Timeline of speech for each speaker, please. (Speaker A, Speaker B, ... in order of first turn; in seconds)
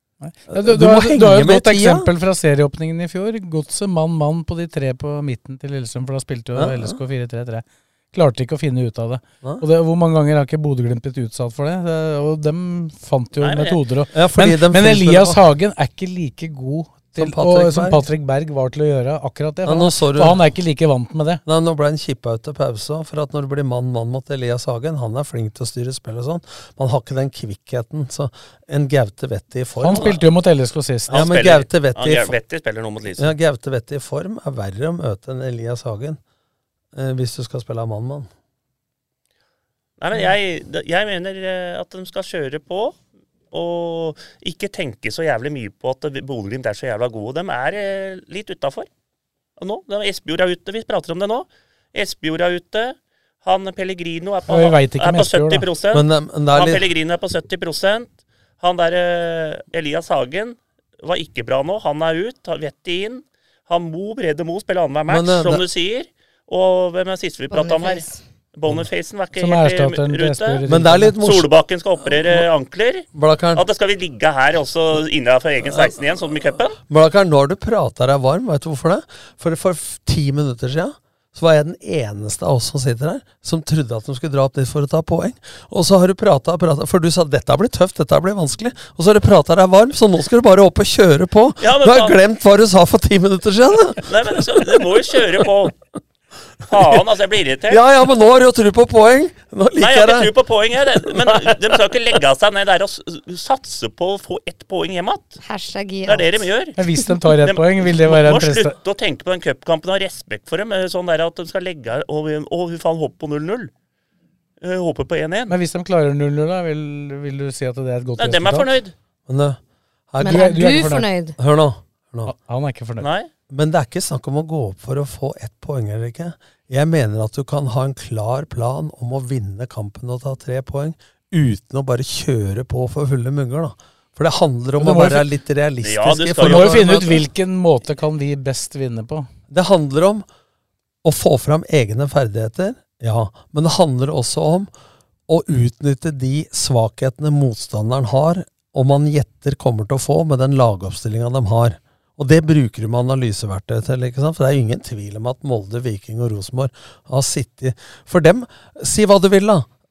Speaker A: 0.2-21.4, 29.8-31.3, 54.5-55.6, 69.4-71.2, 106.8-108.7, 115.5-118.7, 120.2-121.1, 122.2-123.1, 134.8-135.3, 136.4-139.3
Speaker B: 0.5-2.1, 6.5-7.0, 14.1-15.4, 17.1-18.0, 19.6-20.4, 21.4-30.2, 31.1-32.4, 33.2-36.2, 36.9-38.3, 55.9-56.9, 65.1-65.6, 70.7-71.5, 73.1-73.6, 75.7-76.0, 76.9-95.0, 96.7-97.0, 97.7-100.3, 101.0-101.5, 119.3-119.6, 120.1-122.3, 123.5-137.2, 139.5-140.2, 141.0-144.7, 145.3-159.7
Speaker C: 13.4-13.8, 31.1-33.3, 40.0-43.0, 43.5-48.9, 49.6-70.6, 71.2-76.8, 91.6-92.2, 94.0-95.7, 96.7-97.8, 99.8-105.4, 106.0-106.8, 107.4-113.7, 114.6-115.5, 118.2-118.9, 123.0-123.3, 135.8-137.2
Speaker D: 67.5-68.2, 105.4-106.5, 120.2-121.3